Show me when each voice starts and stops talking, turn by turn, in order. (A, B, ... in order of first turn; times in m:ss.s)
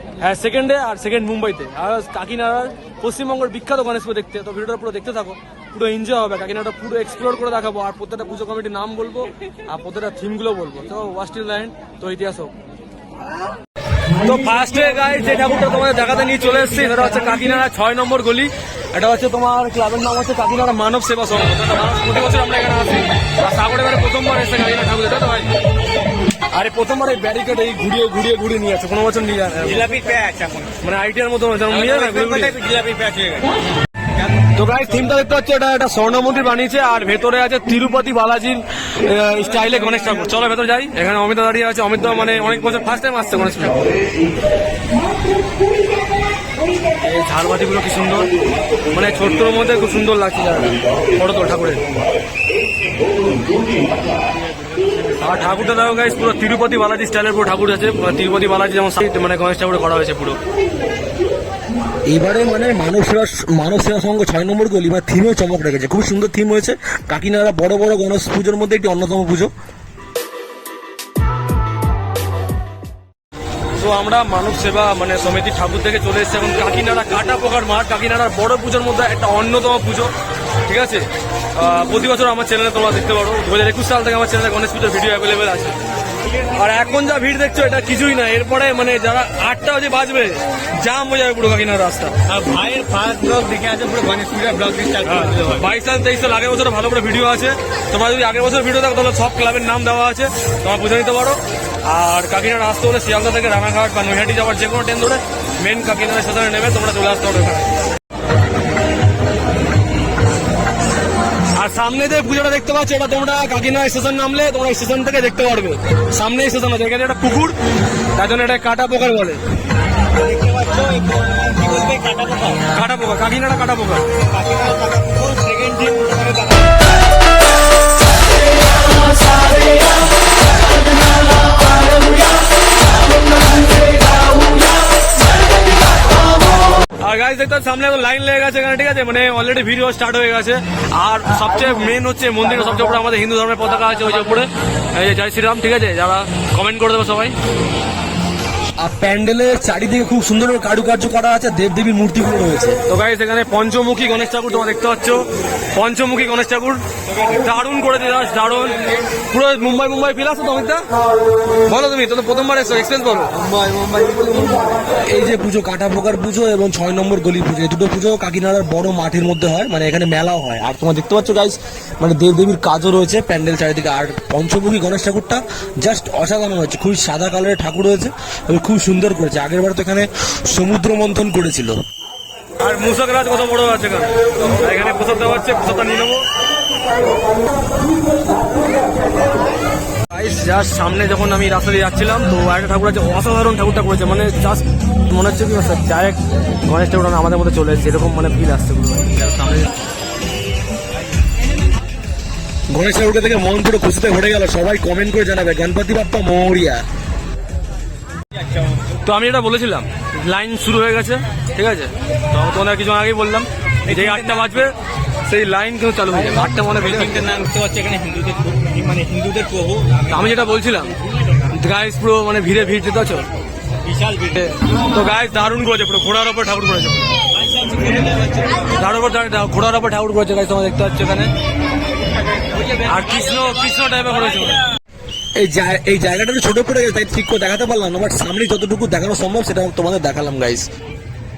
0:00.2-0:12.5 A
0:14.2-0:25.5 A
0:26.5-0:29.8 A
0:29.6-0:30.7 B
0:30.8-0:32.6 A
0:31.7-0:33.5 B
0:34.6-0:43.8 A
0:47.0-0:48.3 A
0:48.9-0:51.8 A
0:55.2-1:00.4 A
1:02.1-1:09.5 C
1:13.8-1:20.1 A
1:20.6-1:25.8 A
1:26.4-1:32.1 A
1:32.3-1:35.6 B
1:35.0-1:47.7 A
1:51.5-1:57.6 A
1:58.1-1:59.4 A
2:00.2-2:02.6 B
2:02.7-2:04.0 A
2:04.3-2:06.6 B
2:17.0-2:27.3 A
2:28.8-2:32.8 C
2:32.9-2:38.8 A
2:39.3-2:40.8 A
2:41.6-2:43.3 A
2:43.4-2:44.8 B
2:44.9-3:01.8 C
3:02.6-3:06.2 A
3:10.1-3:19.7 A
3:22.7-3:26.8 C
3:28.9-3:34.7 A
3:33.9-3:34.6 B
3:35.2-3:37.2 A
3:36.2-3:40.1 B
3:40.1-3:40.9 A
3:41.5-3:43.2 A
3:43.8-3:44.4 B
3:44.3-3:47.1 A
3:47.4-3:48.5 B
3:48.6-3:51.3 A
3:52.4-3:53.5 B
3:52.8-3:54.6 A
3:55.4-4:00.7 C